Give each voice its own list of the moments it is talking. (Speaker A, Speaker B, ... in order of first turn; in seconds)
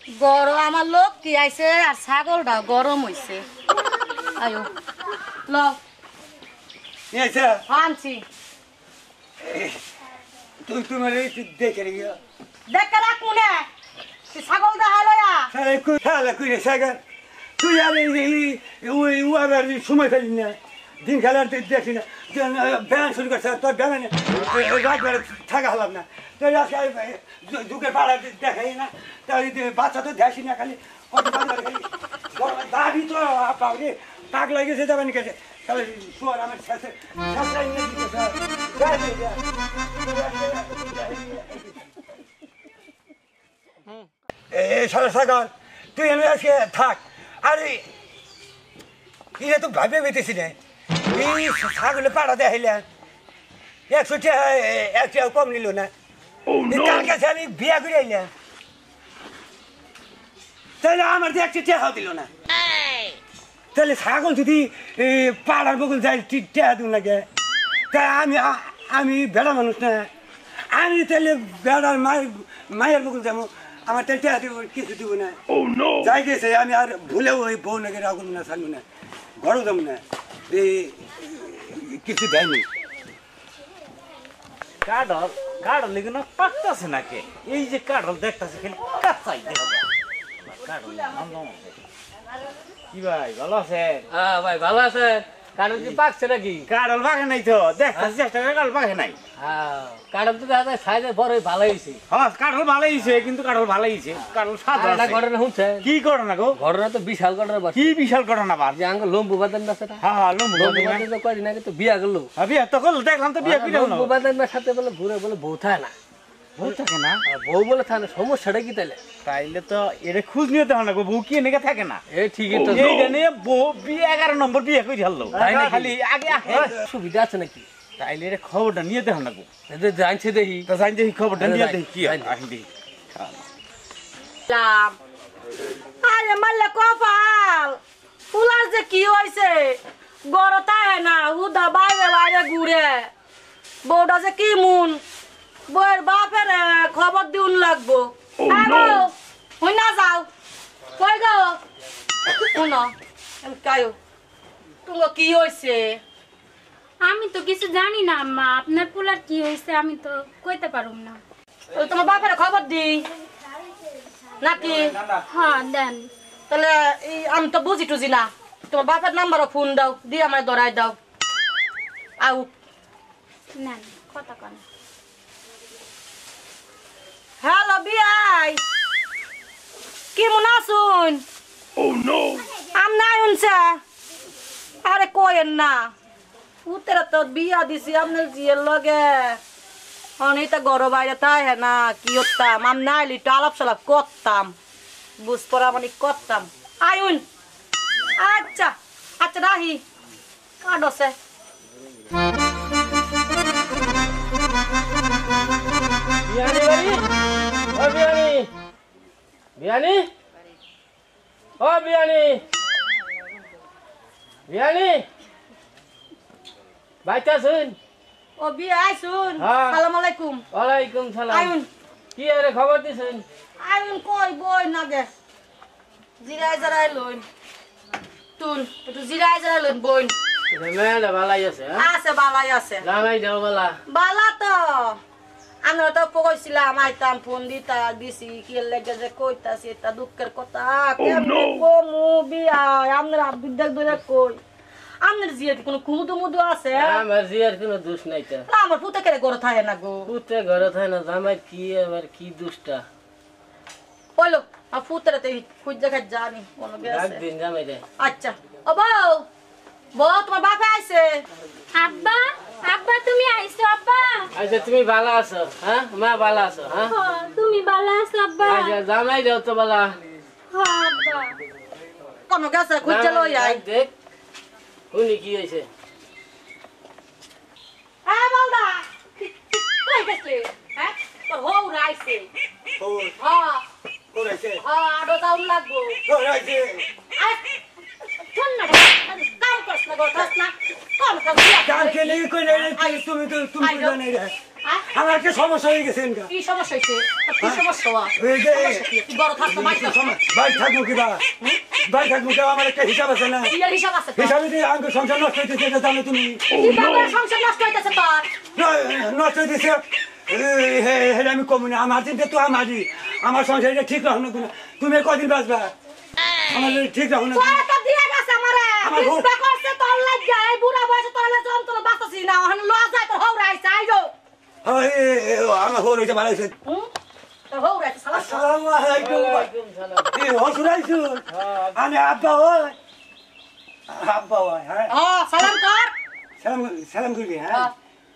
Speaker A: 0.2-3.4, 4.4-4.7, 5.5-5.8, 7.7-8.2, 12.7-13.7, 14.3-15.5, 134.5-134.9, 136.0-137.8, 138.3-143.1, 143.8-145.0, 145.7-150.3, 151.0-151.6, 152.5-153.9, 154.8-156.0, 161.7-163.0, 164.4-164.9, 166.5-171.0, 172.2-172.5, 177.4-178.6, 180.1-181.2, 182.7-183.8, 184.8-185.9, 186.7-189.4, 190.2-194.5, 195.2-197.2, 198.2-199.8, 200.6-201.1, 218.4-220.4, 221.3-221.7, 223.6-225.1, 226.2-227.2, 228.4-230.1, 231.8-232.8, 233.9-235.0, 235.6-244.4, 245.0-247.0, 248.5-250.1, 254.2-257.2, 258.0-259.2, 259.9-261.2, 272.3-273.6, 278.1-282.3, 283.2-283.6, 284.6-286.0, 287.2-287.5, 288.3-293.0, 293.6-293.9, 296.3-300.1, 303.5-304.4, 306.5-308.3, 317.3-324.1, 327.5-328.4, 334.9-335.9
Speaker B: 7.1-7.6, 9.4-9.8, 10.7-12.2, 15.5-17.0, 17.6-39.4, 40.0-41.9, 44.5-47.9, 49.4-50.5, 51.1-52.8, 53.9-55.9, 56.6-58.3, 60.8-62.3, 63.7-67.2, 67.9-70.1, 70.7-75.4, 76.0-78.8, 79.4-82.6, 126.5-126.7, 282.8-283.1, 284.1-284.6, 286.1-286.9, 291.6-294.3, 294.9-296.3, 298.2-298.9, 299.4-303.5, 304.1-306.4, 308.5-315.7, 316.5-317.6, 318.8-319.3, 324.6-326.5, 328.1-329.5, 330.1-332.8, 333.9-335.5, 336.4-337.7
Speaker C: 84.8-89.9, 90.4-91.7, 92.9-94.0, 96.7-99.2, 102.1-105.2, 105.8-106.6, 107.7-108.8, 110.0-111.0, 112.4-114.1, 116.6-117.2, 119.2-126.7, 128.0-129.4, 130.7-133.3, 164.7-165.2
Speaker D: 94.1-96.7, 99.4-102.0, 104.7-105.9, 106.5-108.0, 108.7-110.0, 110.5-112.3, 113.4-115.9, 116.6-119.0, 122.1-123.2, 125.3-127.7, 129.7-130.7, 131.4-132.3, 206.2-207.0, 207.7-208.5, 209.6-210.1, 211.6-212.4, 214.5-215.1, 217.0-217.8, 219.4-219.8, 220.5-221.5, 222.2-223.2, 230.5-231.9, 232.8-233.8, 246.7-248.4, 250.1-252.8, 256.8-257.8, 264.4-266.9, 268.4-269.9, 272.8-273.9, 274.9-275.7, 329.0-330.1, 331.3-331.8
Speaker E: 157.0-161.2, 165.3-166.1, 173.5-174.6, 261.7-264.3, 266.8-268.8, 270.5-271.4